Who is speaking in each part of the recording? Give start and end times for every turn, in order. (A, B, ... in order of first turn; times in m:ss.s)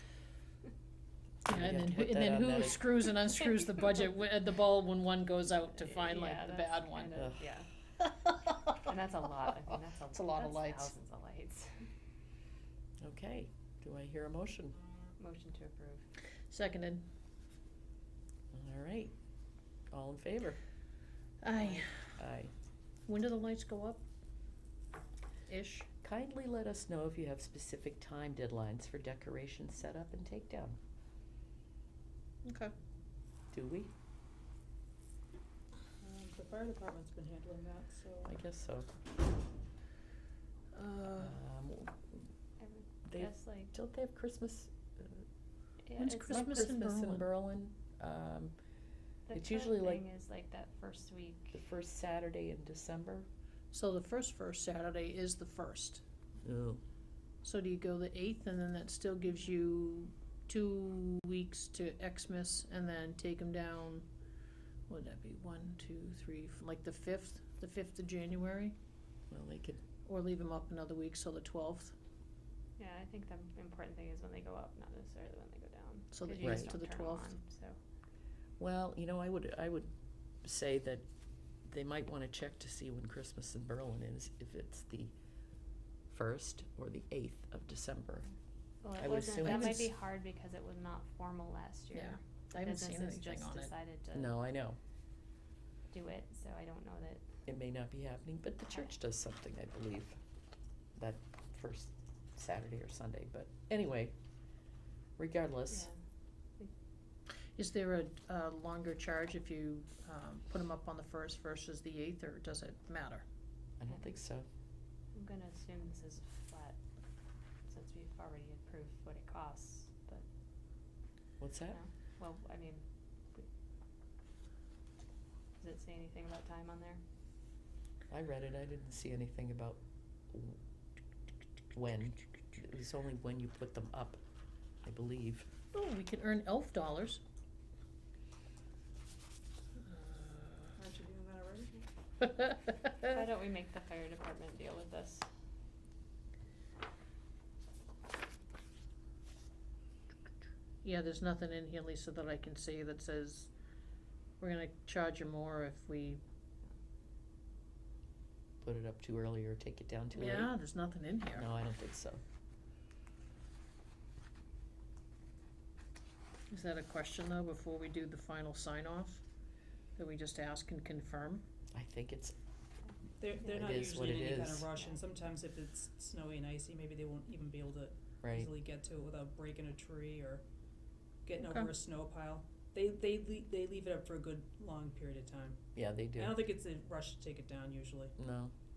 0:01.4-0:07.1 A
0:01.5-0:03.0 B
0:05.8-0:07.7 C
0:07.2-0:07.5 B
0:08.0-0:08.8 A
0:08.8-0:11.9 C
0:10.1-0:10.9 A
0:13.0-0:14.8 B
0:15.2-0:16.0 C
0:16.5-0:17.0 A
0:18.5-0:19.1 B
0:19.9-0:20.6 B
0:21.4-0:21.9 A
0:21.6-0:21.8 C
0:22.2-0:22.5 B
0:23.1-0:24.0 A
0:25.5-0:25.9 A
0:26.0-0:30.8 B
0:32.4-0:32.7 A
0:33.5-0:33.9 B
0:36.0-0:38.3 D
0:38.2-0:38.9 B
0:40.7-0:41.3 A
0:41.1-0:42.2 B
0:42.6-0:43.7 C
0:43.0-0:45.2 B
0:45.8-0:46.6 C
0:46.0-0:47.2 A
0:46.3-0:48.6 B
0:49.3-0:51.6 C
0:49.3-0:50.0 B
0:51.5-0:53.3 B
0:53.7-0:56.0 A
0:56.4-0:56.8 B
0:57.4-1:04.0 A
1:04.9-1:08.7 A
1:09.3-1:09.8 B
1:10.0-1:11.9 A
1:12.8-1:17.8 C
1:16.1-1:17.3 A
1:16.4-1:16.7 B
1:18.6-1:19.9 B
1:20.4-1:21.0 B
1:21.7-1:25.1 B
1:26.1-1:28.3 B
1:28.8-1:34.3 C
1:29.0-1:29.9 B
1:29.4-1:29.8 A
1:31.9-1:33.7 A
1:34.1-1:34.8 B
1:35.9-1:37.2 C
1:37.4-1:40.2 B
1:41.0-1:44.1 B
1:45.2-1:45.9 B
1:47.6-1:53.2 A
1:53.8-1:54.5 B
1:55.1-1:56.8 C
1:57.7-2:00.2 C
2:01.4-2:01.8 B
2:01.7-2:03.4 C
2:05.6-2:07.0 C
2:08.1-2:09.8 B
2:10.3-2:10.6 B
2:11.7-2:14.2 B
2:14.8-2:15.5 B
2:15.7-2:17.2 A
2:19.9-2:20.7 A
2:20.8-2:21.8 D
2:23.0-2:25.2 C
2:30.8-2:33.5 A
2:34.4-2:36.2 A
2:38.6-2:40.5 B
2:40.1-2:41.5 A
2:41.3-2:42.2 B
2:46.5-2:49.2 A
2:50.0-2:51.4 A
2:51.7-2:52.3 B
2:53.2-3:00.4 D
2:53.5-2:54.6 B
2:58.2-2:58.5 B
3:01.2-3:05.6 D
3:01.4-3:01.7 A
3:05.7-3:06.4 B
3:06.2-3:08.1 D
3:08.2-3:08.5 B